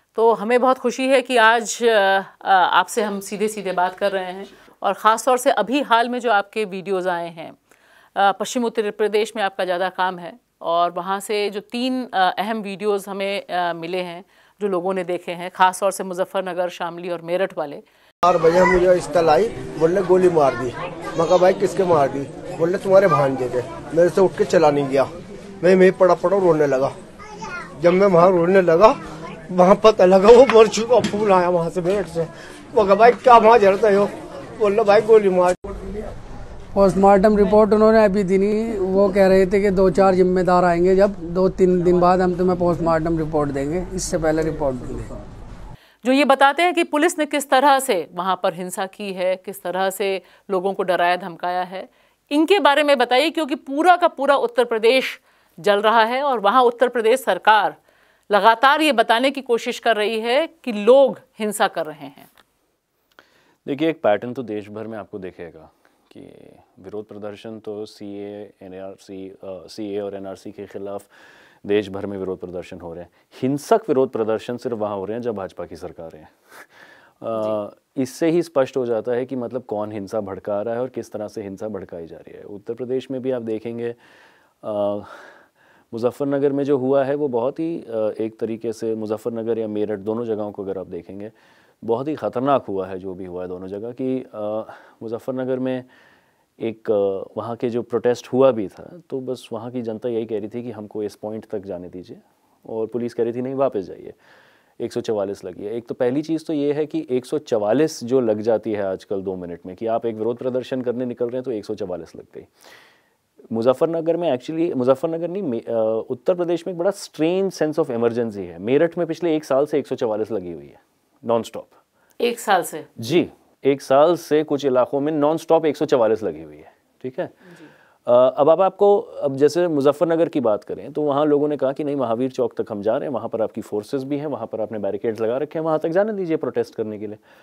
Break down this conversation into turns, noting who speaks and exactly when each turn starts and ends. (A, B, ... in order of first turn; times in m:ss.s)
0:00.2-0:07.6 A
0:08.2-0:17.8 A
0:18.2-0:27.0 B
0:27.8-0:35.6 B
0:36.7-0:45.1 C
0:46.0-0:57.8 A
0:58.3-1:02.3 A
1:03.6-1:11.1 D
1:11.6-1:16.4 D
1:17.2-1:24.0 D
1:24.6-1:25.3 D
1:25.9-1:35.9 D
1:36.6-1:44.2 D
1:44.8-1:52.5 D
1:53.5-2:01.8 D
2:02.2-2:02.9 A
2:03.0-2:07.3 D
2:08.1-2:17.2 D